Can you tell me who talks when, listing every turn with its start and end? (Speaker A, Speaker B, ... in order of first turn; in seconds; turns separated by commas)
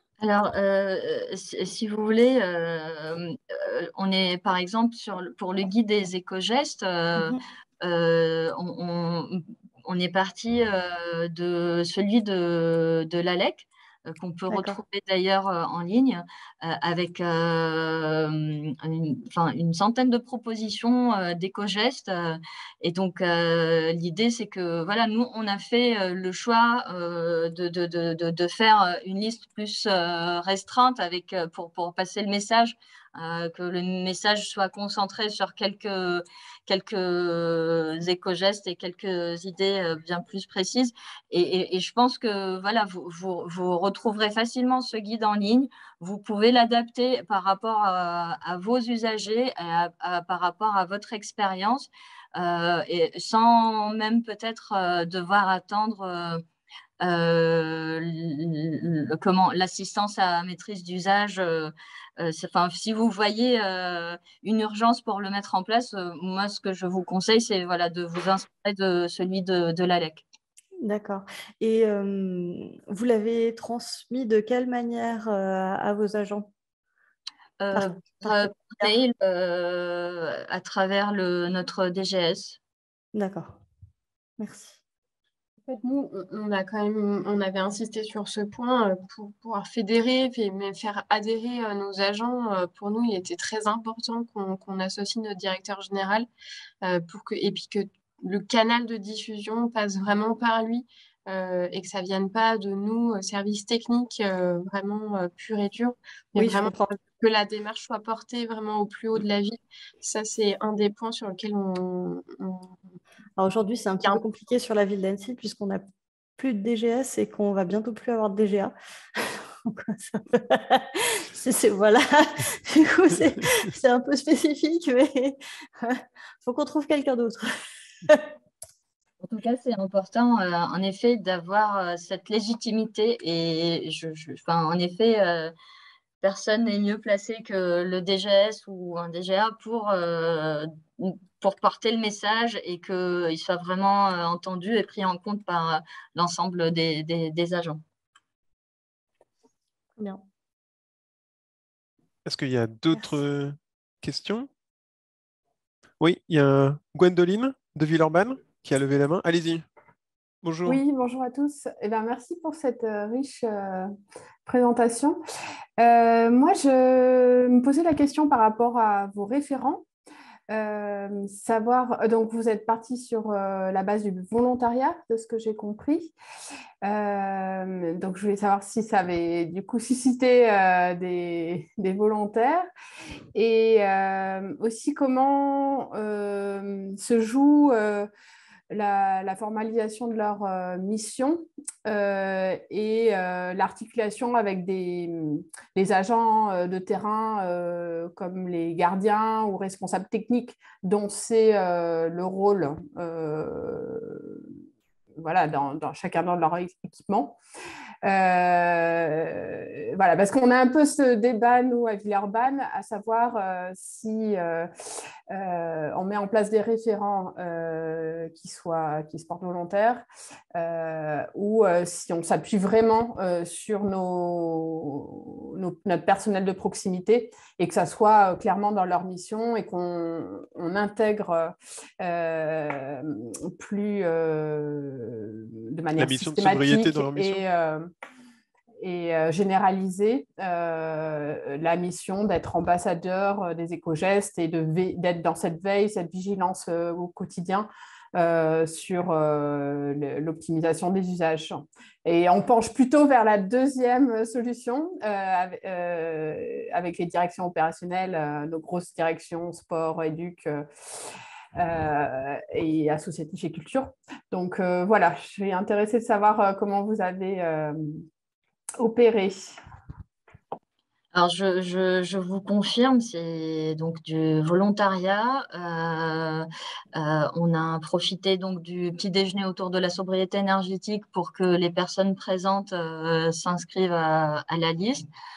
Speaker A: 0.2-56.4, Speaker B: 14.5-14.8, Speaker A: 57.0-70.2, Speaker B: 70.8-76.5, Speaker A: 77.6-82.6, Speaker B: 77.7-78.9, Speaker B: 83.2-83.6, Speaker B: 84.4-84.8, Speaker C: 85.7-96.3, Speaker C: 96.8-112.7, Speaker B: 106.4-106.9, Speaker B: 113.4-115.8, Speaker B: 116.4-127.5, Speaker A: 129.2-135.5, Speaker A: 136.2-147.8, Speaker B: 150.0-150.2, Speaker D: 152.3-154.5, Speaker D: 156.0-159.6, Speaker D: 160.4-160.8, Speaker E: 160.7-163.9, Speaker E: 164.5-165.2, Speaker E: 165.8-169.8, Speaker E: 170.5-176.1, Speaker E: 176.8-182.6, Speaker E: 183.3-188.1, Speaker E: 188.7-204.4, Speaker E: 205.2-207.4, Speaker E: 208.1-214.7, Speaker E: 215.3-220.1, Speaker E: 220.6-237.9, Speaker D: 236.0-237.4, Speaker E: 238.8-260.7, Speaker E: 261.6-268.1, Speaker E: 268.8-269.6, Speaker A: 271.1-285.0